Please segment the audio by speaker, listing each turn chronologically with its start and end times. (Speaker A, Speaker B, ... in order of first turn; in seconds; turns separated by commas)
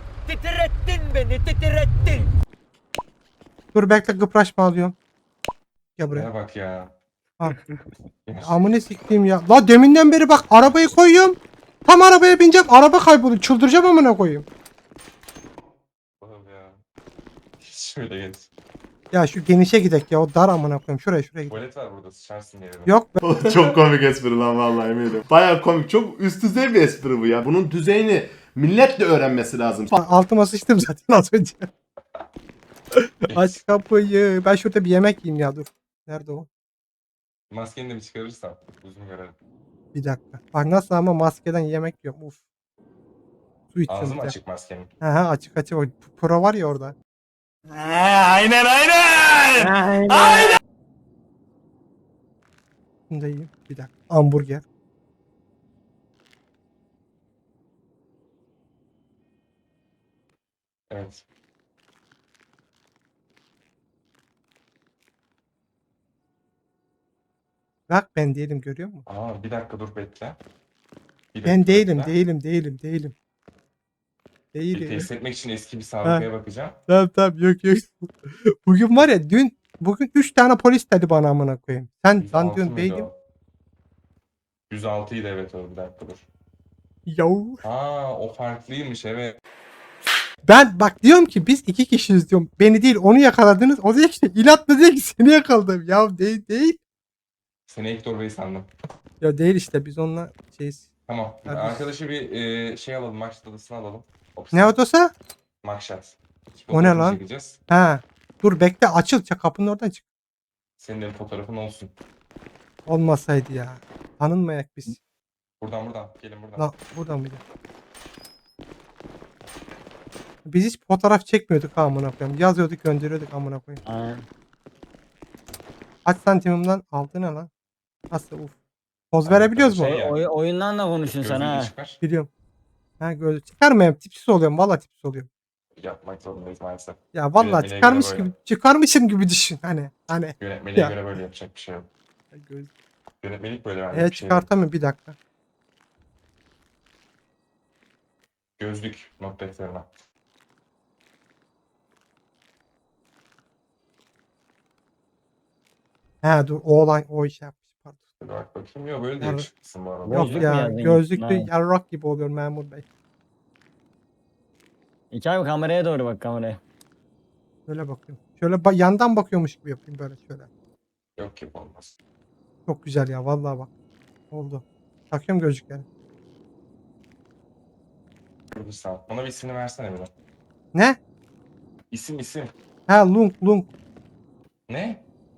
Speaker A: 0.3-2.3, Speaker B: 3.7-5.0, Speaker B: 6.0-6.3, Speaker C: 6.1-6.9, Speaker C: 8.3-8.7, Speaker B: 8.4-14.4, Speaker C: 16.2-16.8, Speaker C: 17.6-18.5, Speaker B: 19.1-21.6, Speaker C: 21.5-23.0, Speaker B: 22.9-23.2, Speaker D: 23.2-29.9, Speaker B: 29.9-31.7, Speaker B: 33.0-36.5, Speaker C: 33.3-33.6, Speaker C: 37.5-39.4, Speaker B: 39.9-42.4, Speaker B: 43.7-44.4, Speaker C: 43.9-44.9, Speaker B: 45.0-47.0, Speaker A: 49.6-50.4, Speaker B: 53.1-54.6, Speaker C: 60.9-61.2, Speaker B: 67.9-69.0, Speaker C: 69.1-70.4, Speaker C: 71.3-72.2, Speaker B: 71.5-73.1, Speaker B: 74.5-75.1, Speaker C: 74.7-76.8, Speaker B: 76.9-83.1, Speaker C: 82.2-83.1, Speaker C: 84.7-86.3, Speaker B: 87.1-87.6, Speaker C: 87.6-89.4, Speaker B: 90.5-96.8, Speaker C: 97.7-98.7, Speaker B: 99.2-100.9, Speaker C: 101.1-104.8, Speaker B: 101.5-101.9, Speaker B: 104.5-105.1, Speaker C: 105.6-107.6, Speaker B: 106.7-110.0, Speaker C: 110.8-111.9, Speaker B: 112.9-115.0, Speaker C: 115.6-116.7, Speaker B: 116.6-117.4, Speaker B: 120.5-123.8, Speaker E: 123.8-124.3, Speaker B: 126.0-127.5, Speaker B: 128.1-128.6, Speaker B: 129.1-130.0, Speaker C: 129.2-130.2, Speaker E: 129.8-131.7, Speaker C: 131.0-132.0, Speaker B: 132.0-132.3, Speaker B: 133.0-135.3, Speaker C: 135.8-138.3, Speaker B: 137.1-141.1, Speaker C: 140.4-141.9, Speaker B: 142.3-142.7, Speaker C: 143.2-144.5, Speaker B: 143.9-145.2, Speaker C: 148.6-149.9, Speaker B: 156.2-158.0, Speaker C: 158.2-160.5, Speaker B: 159.2-159.5, Speaker E: 160.1-161.5, Speaker B: 160.1-162.8, Speaker E: 165.1-166.6, Speaker B: 167.7-170.5, Speaker C: 171.2-172.0, Speaker B: 172.7-173.7, Speaker B: 174.3-175.9, Speaker C: 178.5-180.1, Speaker B: 180.7-181.0, Speaker C: 181.9-182.5, Speaker B: 182.9-183.7, Speaker C: 184.7-185.0